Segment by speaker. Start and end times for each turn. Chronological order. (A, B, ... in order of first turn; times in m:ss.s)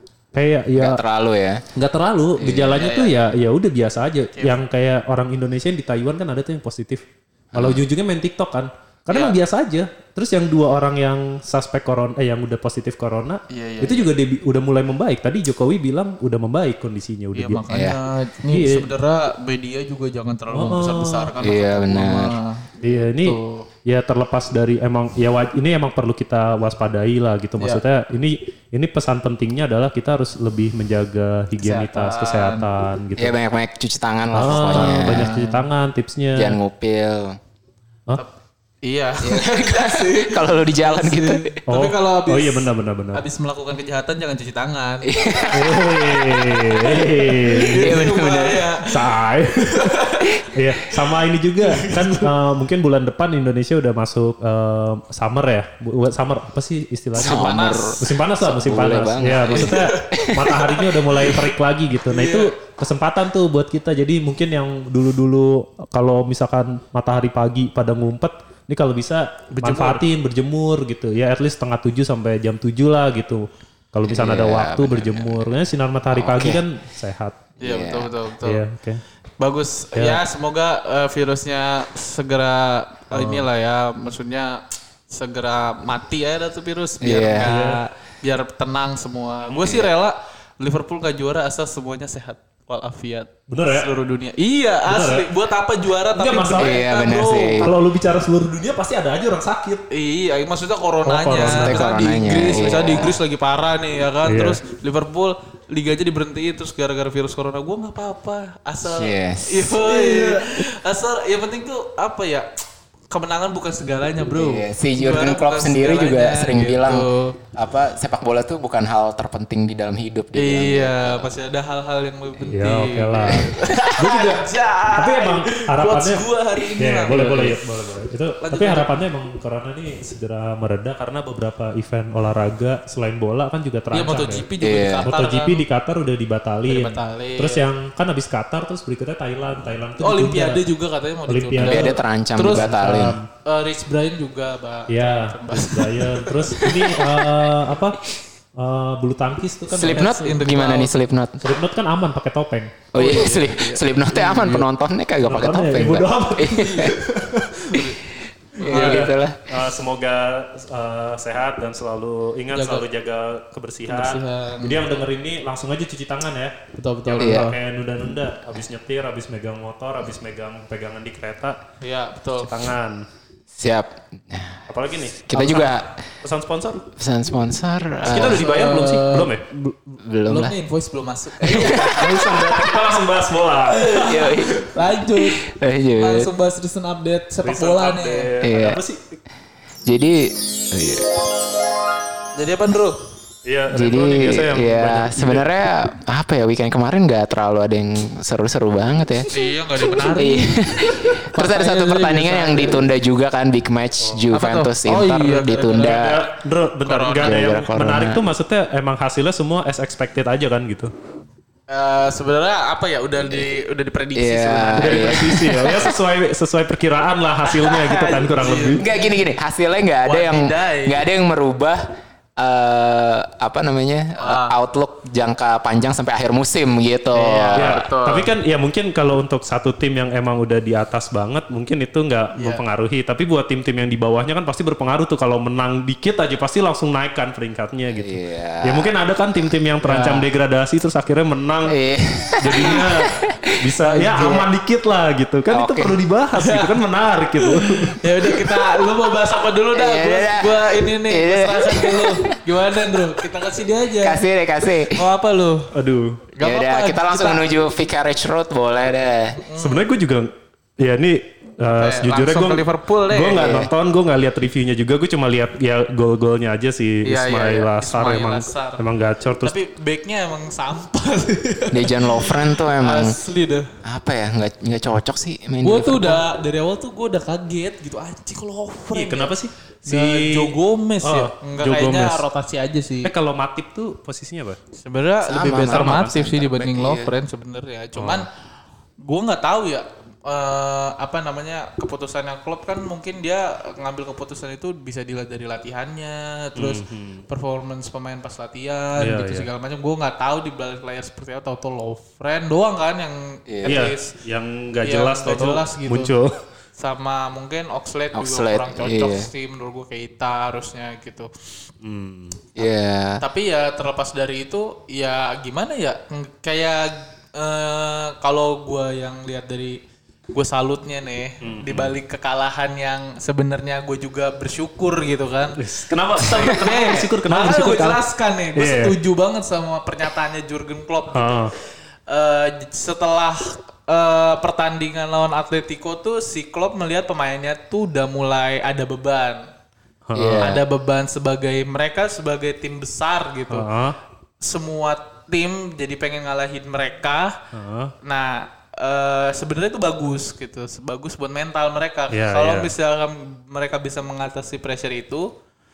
0:00.3-0:01.0 A
0:00.7-0:01.6 B
0:01.8-0:17.8 A
0:02.4-0:03.0 B
0:02.8-0:03.1 C
0:07.5-0:07.8 B
0:09.1-0:09.4 C
0:13.5-0:14.1 C
0:17.3-0:22.7 C
0:17.7-0:18.0 B
0:18.5-0:18.9 A
0:20.5-0:21.3 A
0:21.4-0:22.3 B
0:22.8-0:33.3 A
0:23.2-0:23.6 C
0:31.6-0:32.6 C
0:33.2-0:35.3 B
0:34.3-0:36.6 A
0:34.7-0:35.6 C
0:36.3-0:37.4 B
0:38.8-0:45.8 C
0:39.2-0:41.6 B
0:41.7-0:43.2 A
0:45.0-0:48.7 B
0:45.5-0:48.0 A
0:47.4-0:48.9 C
0:48.8-0:49.9 A
0:49.6-0:50.4 C
0:50.4-1:17.4 A
0:51.6-0:52.3 C
0:57.1-1:00.8 B
0:57.2-0:58.0 C
0:59.4-1:00.8 C
1:02.1-1:02.5 C
1:09.5-1:10.0 C
1:14.1-1:15.4 B
1:16.1-1:16.6 B
1:17.6-1:18.1 B
1:17.6-1:18.6 C
1:18.4-1:19.0 A
1:19.4-1:37.7 C
1:20.0-1:20.2 A
1:23.1-1:23.4 A
1:27.0-1:27.5 B
1:27.4-1:27.8 A
1:29.6-1:29.9 B
1:33.5-1:33.9 A
1:34.9-1:35.3 A
1:36.2-1:36.8 A
1:36.6-1:37.7 B
1:37.6-1:39.8 A
1:39.9-1:52.5 C
1:41.0-1:42.2 A
1:41.4-1:43.2 B
1:44.2-1:44.6 A
1:48.8-1:50.4 B
1:53.1-1:57.4 C
1:54.2-2:01.3 B
2:00.3-2:07.6 C
2:02.5-2:06.2 A
2:03.3-2:04.0 B
2:06.8-2:14.5 A
2:08.4-2:08.9 C
2:13.9-2:15.6 C
2:14.6-2:15.1 B
2:15.0-2:20.6 A
2:16.7-2:17.6 C
2:20.0-2:22.9 C
2:21.3-2:23.3 A
2:21.6-2:23.2 B
2:23.4-2:26.7 C
2:24.9-2:28.0 A
2:28.6-2:30.1 A
2:29.7-2:31.4 B
2:29.9-2:30.9 C
2:31.4-2:32.9 A
2:32.9-2:37.0 B
2:32.9-2:33.8 C
2:34.2-2:34.6 A
2:35.3-2:37.8 A
2:36.6-2:36.9 C
2:38.6-2:39.0 C
2:38.6-2:51.6 A
2:38.6-2:39.4 B
2:42.5-2:42.8 C
2:43.9-2:44.9 C
2:46.8-2:47.6 C
2:47.1-2:47.5 B
2:51.8-2:52.5 C
2:52.4-2:53.0 A
2:53.5-2:54.6 B
2:54.7-2:56.8 A
2:55.3-2:55.9 B
2:56.9-2:58.5 B
2:58.0-2:59.7 A
2:58.2-2:59.4 C
3:00.0-3:00.5 B
3:00.2-3:02.3 C
3:01.4-3:02.2 B
3:01.5-3:04.3 A
3:03.6-3:08.3 C
3:04.0-3:04.6 B
3:05.4-3:06.3 B
3:07.4-3:09.2 A
3:08.4-3:08.8 B
3:09.8-3:11.2 B
3:12.4-3:13.0 C
3:13.4-3:15.4 A
3:13.7-3:19.3 B
3:19.3-3:22.8 C
3:19.9-3:26.3 B
3:24.0-3:24.2 A
3:24.3-3:26.0 C
3:25.8-3:30.9 A
3:26.8-3:27.6 C
3:27.2-3:28.2 B
3:31.7-3:35.9 C
3:34.1-3:35.9 B
3:34.7-3:38.8 A
3:37.5-3:39.1 C
3:38.8-3:47.8 B
3:40.0-3:41.0 C
3:44.2-3:44.5 C
3:47.1-3:48.3 C
3:47.5-4:01.8 A
3:52.4-3:52.6 C
3:58.0-3:58.9 B
3:59.8-4:00.2 C
4:01.7-4:03.5 B
4:02.4-4:08.0 A
4:03.9-4:04.4 C
4:05.5-4:06.0 B
4:06.4-4:06.8 C
4:07.4-4:14.2 C
4:09.7-4:13.1 B
4:14.0-4:15.0 B
4:14.9-4:15.7 C
4:15.7-4:16.2 A
4:16.3-4:17.4 C
4:16.4-4:19.4 B
4:19.3-4:19.9 C
4:19.6-4:29.5 A
4:21.6-4:23.6 C
4:23.3-4:23.7 B
4:27.0-4:28.8 C
4:29.4-4:33.7 C
4:31.7-4:33.2 B
4:33.8-4:36.2 B
4:35.6-4:39.3 C
4:38.9-4:42.2 A
4:39.8-4:43.1 C
4:43.0-4:44.6 A
4:44.7-4:48.3 C
4:45.2-4:47.1 B
4:45.6-4:46.4 A
4:48.0-4:48.2 A
4:49.0-5:04.1 C
4:56.6-4:57.2 A
4:59.0-4:59.5 A
5:03.5-5:03.9 B
5:03.6-5:06.3 A
5:04.8-5:06.1 C
5:06.8-5:11.3 C
5:08.1-5:09.3 B
5:11.8-5:12.4 A
5:12.5-5:13.2 B
5:13.2-5:19.8 C
5:20.3-5:25.6 C
5:21.4-5:21.9 A
5:25.6-5:28.0 A
5:26.3-5:31.4 C
5:28.6-5:28.9 A
5:31.1-5:31.5 A
5:32.1-5:39.5 C
5:40.1-5:40.6 A
5:40.1-5:40.6 B
5:40.4-5:43.7 C
5:43.5-5:44.0 A
5:44.4-5:47.4 C
5:47.5-5:47.9 A
5:48.0-5:55.3 C
5:52.1-5:52.7 A